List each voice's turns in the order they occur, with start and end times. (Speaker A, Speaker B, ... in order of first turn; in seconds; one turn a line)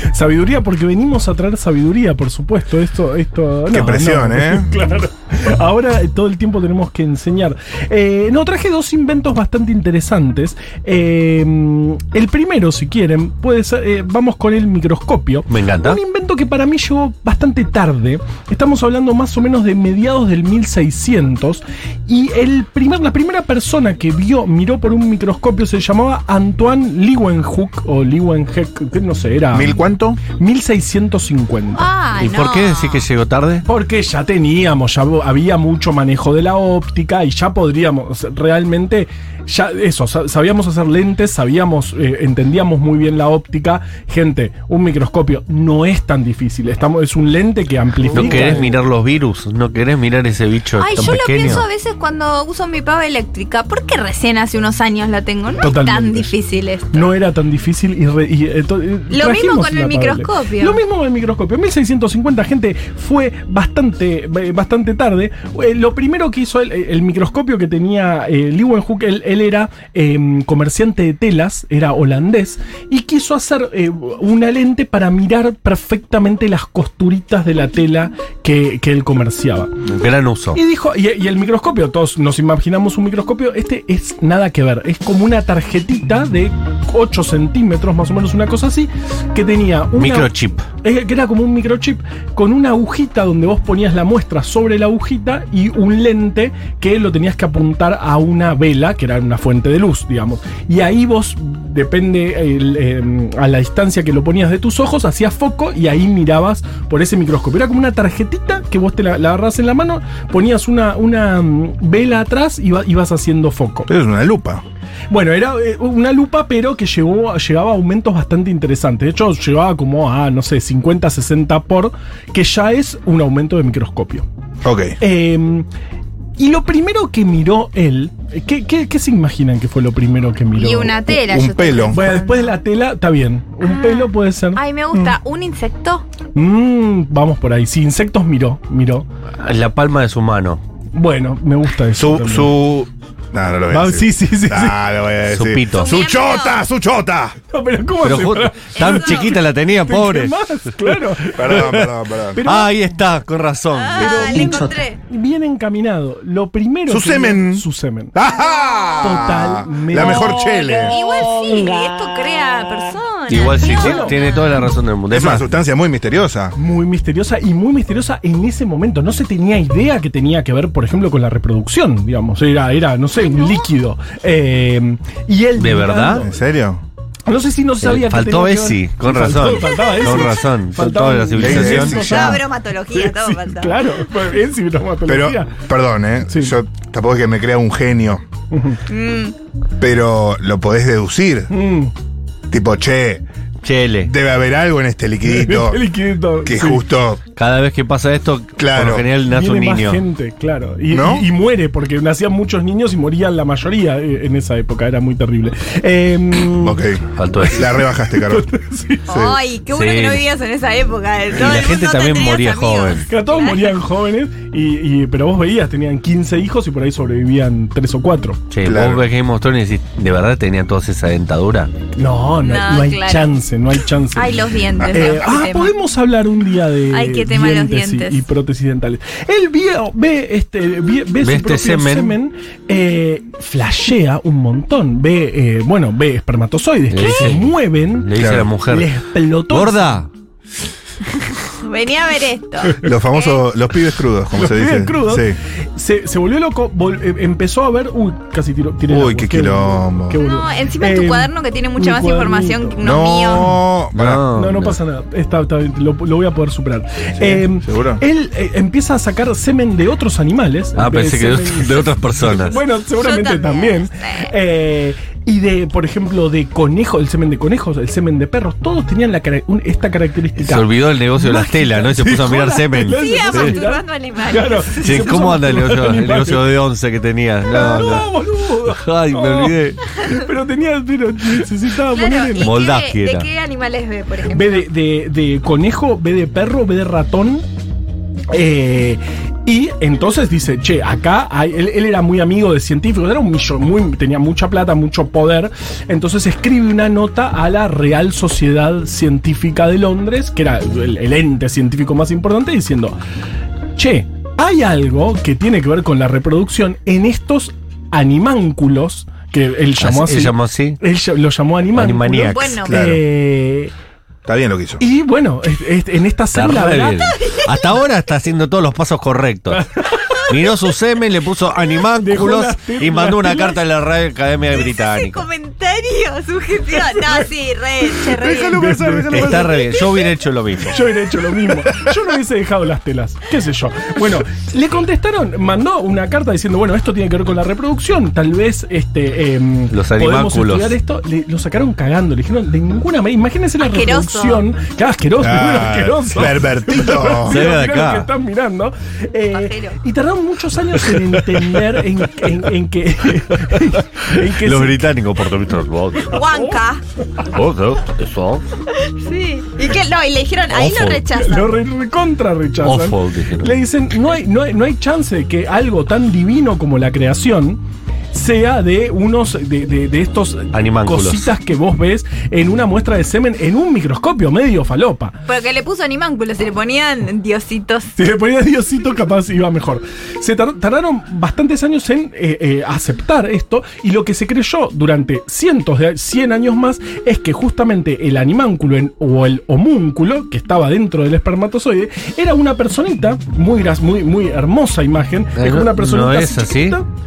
Speaker A: 0.1-31.9
Speaker B: 3.7-4.7
Speaker C: 15.5-16.0
Speaker B: 29.5-30.2
Speaker D: 31.7-33.0
Speaker C: 32.2-33.6
Speaker A: 33.7-48.8
Speaker B: 48.1-48.5
Speaker C: 48.1-51.6
Speaker D: 50.8-57.1
Speaker A: 55.6-56.3
Speaker A: 56.9-79.7
Speaker D: 59.1-60.8
Speaker C: 79.8-80.6
Speaker A: 80.5-113.9
Speaker C: 90.0-90.7
Speaker B: 113.9-114.6
Speaker A: 115.1-124.3
Speaker B: 124.6-125.0
Speaker A: 125.0-125.7
Speaker A: 126.4-131.2
Speaker D: 130.6-132.6
Speaker B: 131.2-132.1
Speaker A: 131.9-134.6
Speaker D: 133.6-136.1
Speaker A: 136.3-139.1
Speaker C: 139.4-140.6
Speaker A: 140.9-142.5
Speaker B: 142.0-147.4
Speaker A: 143.7-144.8
Speaker C: 145.3-145.9
Speaker D: 145.7-146.6
Speaker A: 147.5-152.8
Speaker C: 148.0-150.9
Speaker D: 148.8-149.4
Speaker B: 151.3-152.4
Speaker C: 151.5-151.8
Speaker C: 152.4-154.7
Speaker D: 153.8-155.0
Speaker A: 153.9-158.2
Speaker B: 156.9-161.0
Speaker A: 159.0-161.1
Speaker D: 160.8-164.7
Speaker A: 163.3-164.2
Speaker C: 163.3-165.5
Speaker B: 165.1-166.6
Speaker A: 166.6-176.4
Speaker D: 173.2-173.7
Speaker C: 175.6-176.3
Speaker B: 176.2-176.8
Speaker A: 177.3-185.5
Speaker C: 177.8-182.4
Speaker D: 179.7-180.1
Speaker B: 181.4-182.3
Speaker D: 181.8-183.9
Speaker B: 185.1-188.2
Speaker A: 188.5-188.8
Speaker D: 188.9-189.3
Speaker B: 189.8-191.5
Speaker A: 191.5-191.9
Speaker B: 192.5-193.2
Speaker C: 193.6-194.1
Speaker B: 194.0-195.8
Speaker A: 195.2-196.8
Speaker B: 196.4-197.2
Speaker C: 197.3-200.0
Speaker B: 198.6-199.1
Speaker A: 199.2-206.8
Speaker B: 200.9-201.3
Speaker B: 206.5-208.5
Speaker C: 207.2-207.7
Speaker A: 207.5-209.0
Speaker D: 209.1-213.8
Speaker B: 209.1-209.4
Speaker C: 209.7-210.2
Speaker C: 211.3-213.1
Speaker A: 213.1-218.4
Speaker C: 218.5-221.7
Speaker B: 218.6-219.1
Speaker A: 222.0-240.0
Speaker D: 222.4-223.3
Speaker D: 224.1-225.7
Speaker D: 226.9-228.2
Speaker C: 231.2-232.2
Speaker C: 236.9-238.9
Speaker B: 238.2-238.5
Speaker C: 239.5-240.1
Speaker D: 241.4-243.4
Speaker B: 242.8-245.4
Speaker A: 244.3-252.8
Speaker B: 248.9-250.2
Speaker D: 250.2-253.5
Speaker B: 252.8-254.2
Speaker C: 253.9-254.8
Speaker A: 254.2-276.5
Speaker B: 257.2-258.0
Speaker C: 260.8-262.6
Speaker D: 263.0-264.3
Speaker C: 270.4-273.6
Speaker D: 272.9-275.4
Speaker C: 274.8-278.1
Speaker A: 277.5-282.5
Speaker C: 278.6-279.8
Speaker D: 281.9-284.7
Speaker C: 282.4-283.3
Speaker A: 284.3-287.4
Speaker A: 288.3-303.0
Speaker A: 303.8-313.7
Speaker C: 309.8-310.8
Speaker C: 311.7-312.6
Speaker D: 312.3-312.8
Speaker B: 312.6-313.0
Speaker B: 314.3-314.8
Speaker A: 314.8-317.0
Speaker C: 316.3-325.2
Speaker D: 316.9-317.8
Speaker A: 319.5-320.3
Speaker A: 322.0-323.6
Speaker D: 324.5-328.7
Speaker B: 328.1-329.7
Speaker A: 328.5-329.4
Speaker C: 329.1-330.8
Speaker A: 330.6-354.9
Speaker B: 331.7-332.0
Speaker C: 339.7-340.8
Speaker D: 343.6-344.4
Speaker B: 345.2-347.4
Speaker C: 347.2-348.1
Speaker D: 349.3-349.8
Speaker C: 350.8-351.8
Speaker C: 354.0-356.2
Speaker D: 356.0-356.8
Speaker A: 356.2-356.6
Speaker C: 357.2-358.4
Speaker D: 358.7-361.6
Speaker C: 360.5-361.0
Speaker A: 361.1-375.1
Speaker C: 362.6-363.6
Speaker C: 370.5-371.3
Speaker D: 375.3-377.9
Speaker A: 378.0-396.9
Speaker C: 395.4-396.8